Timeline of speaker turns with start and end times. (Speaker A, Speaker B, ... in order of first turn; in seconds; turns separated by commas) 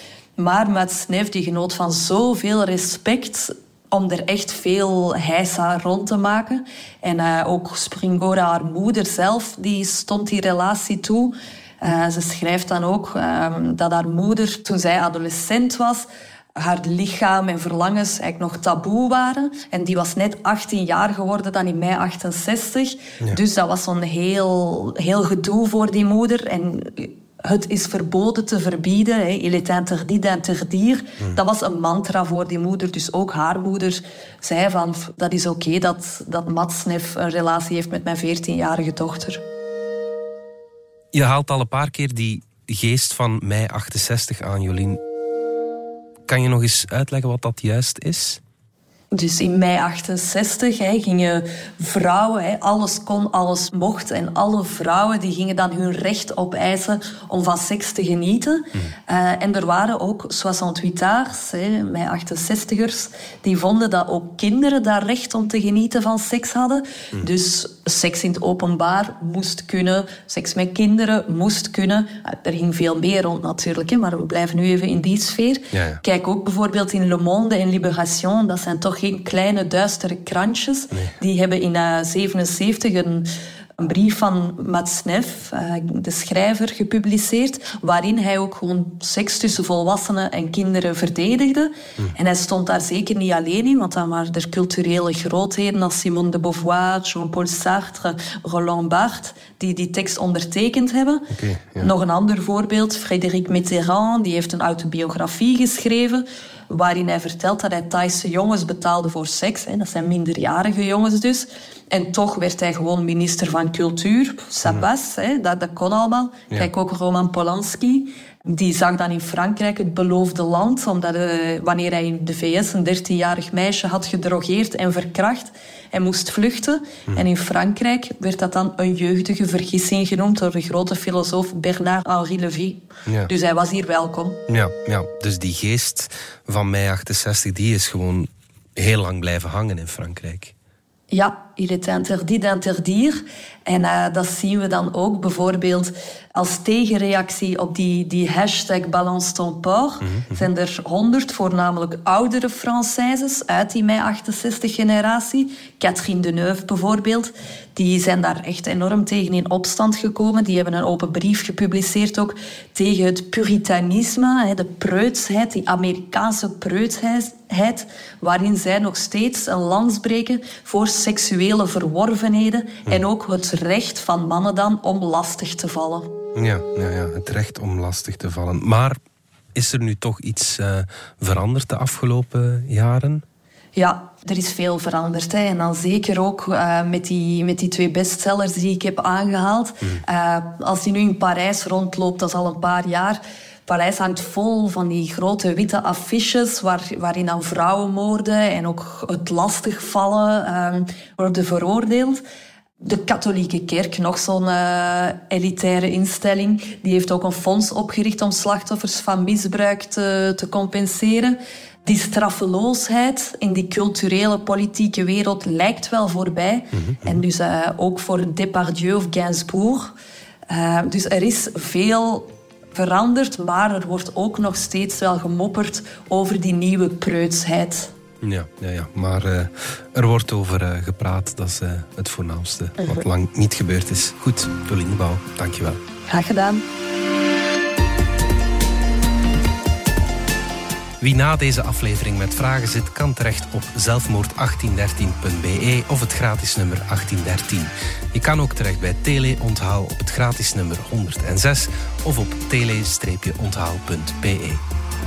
Speaker A: 0.4-39.4, Speaker B: 41.1-45.0, Speaker B: 46.3-48.4, Speaker A: 49.1-101.3, Speaker B: 75.7-76.0, Speaker B: 101.3-101.9, Speaker A: 101.8-134.4, Speaker B: 134.5-140.5, Speaker A: 141.1-176.1, Speaker B: 150.0-150.5, Speaker B: 176.4-179.0, Speaker B: 179.6-183.2, Speaker A: 183.8-202.2, Speaker A: 202.8-219.9, Speaker B: 216.7-217.2, Speaker A: 220.5-227.9, Speaker B: 228.2-235.8, Speaker A: 232.8-233.1, Speaker A: 236.1-236.6, Speaker B: 241.0-254.6